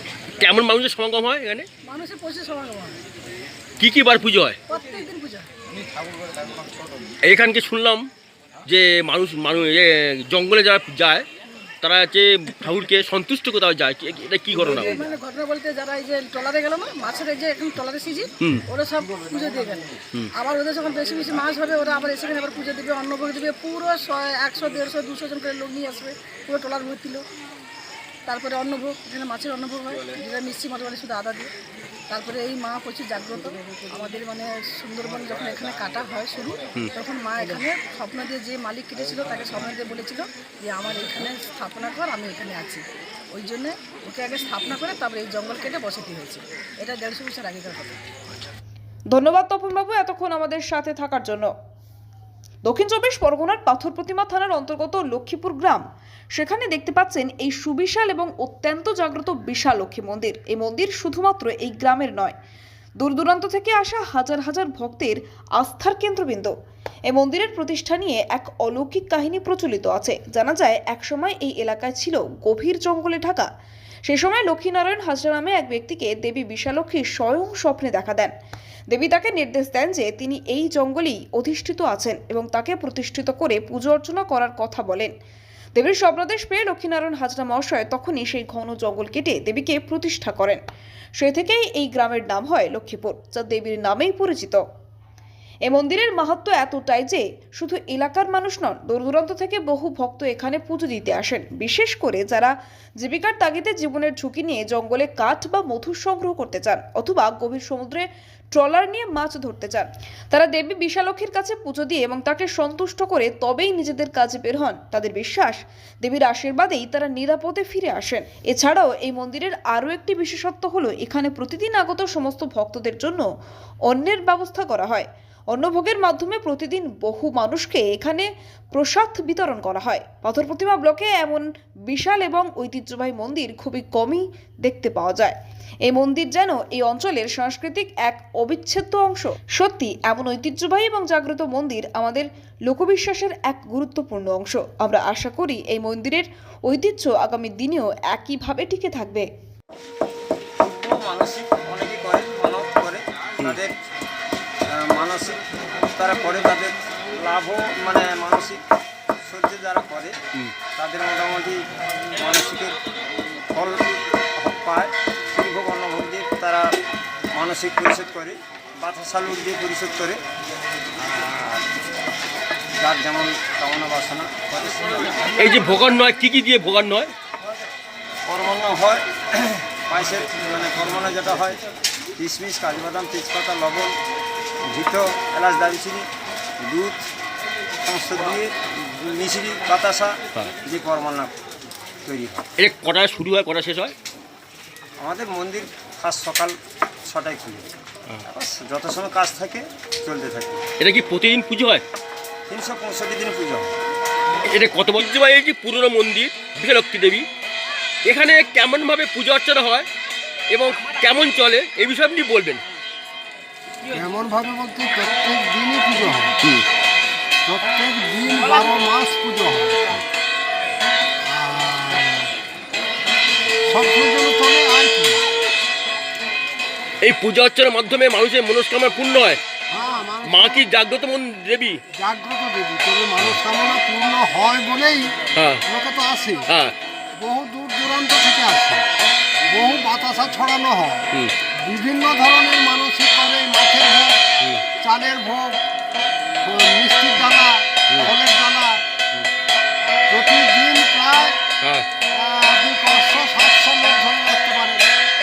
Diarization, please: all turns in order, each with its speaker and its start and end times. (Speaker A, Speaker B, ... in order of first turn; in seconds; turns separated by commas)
Speaker A: 0.4-1.7, Speaker B: 1.8-3.0, Speaker A: 3.8-4.6, Speaker B: 4.7-5.5, Speaker A: 7.2-8.1, Speaker A: 8.7-11.2, Speaker A: 11.8-15.0, Speaker B: 14.7-27.2, Speaker B: 28.2-31.5, Speaker B: 32.1-48.0, Speaker C: 49.1-51.5, Speaker C: 52.6-62.3, Speaker C: 63.0-66.5, Speaker C: 67.1-73.5, Speaker C: 74.1-78.3, Speaker C: 78.9-85.1, Speaker C: 85.7-90.6, Speaker C: 91.2-94.6, Speaker C: 95.7-123.3, Speaker C: 123.9-149.3, Speaker D: 150.6-153.7, Speaker D: 154.7-155.4, Speaker D: 155.9-158.6, Speaker D: 159.2-160.1, Speaker D: 160.7-161.6, Speaker D: 162.2-162.8, Speaker D: 163.5-166.7, Speaker D: 167.3-170.2, Speaker D: 171.0-171.7, Speaker D: 172.8-175.3, Speaker A: 175.3-177.1, Speaker D: 178.3-181.6, Speaker D: 182.2-183.9, Speaker D: 184.7-186.1, Speaker D: 186.6-187.0, Speaker D: 187.8-191.4, Speaker D: 192.0-192.4, Speaker A: 192.6-193.9, Speaker D: 195.0-197.7, Speaker D: 198.2-200.6, Speaker A: 200.8-201.8, Speaker D: 202.5-203.7, Speaker A: 204.5-207.2, Speaker A: 208.1-209.9, Speaker A: 210.5-212.6, Speaker E: 213.9-216.3, Speaker E: 217.4-220.0, Speaker E: 221.2-222.3, Speaker E: 223.7-225.2, Speaker A: 227.0-229.4, Speaker E: 229.7-230.7, Speaker A: 230.2-231.8, Speaker E: 231.9-236.5, Speaker A: 235.3-235.6, Speaker A: 236.5-236.7, Speaker E: 237.2-238.9, Speaker E: 239.5-244.2, Speaker A: 244.4-244.6, Speaker E: 244.8-245.6, Speaker E: 246.4-248.8, Speaker E: 250.1-251.4, Speaker A: 251.6-251.9, Speaker E: 252.1-254.9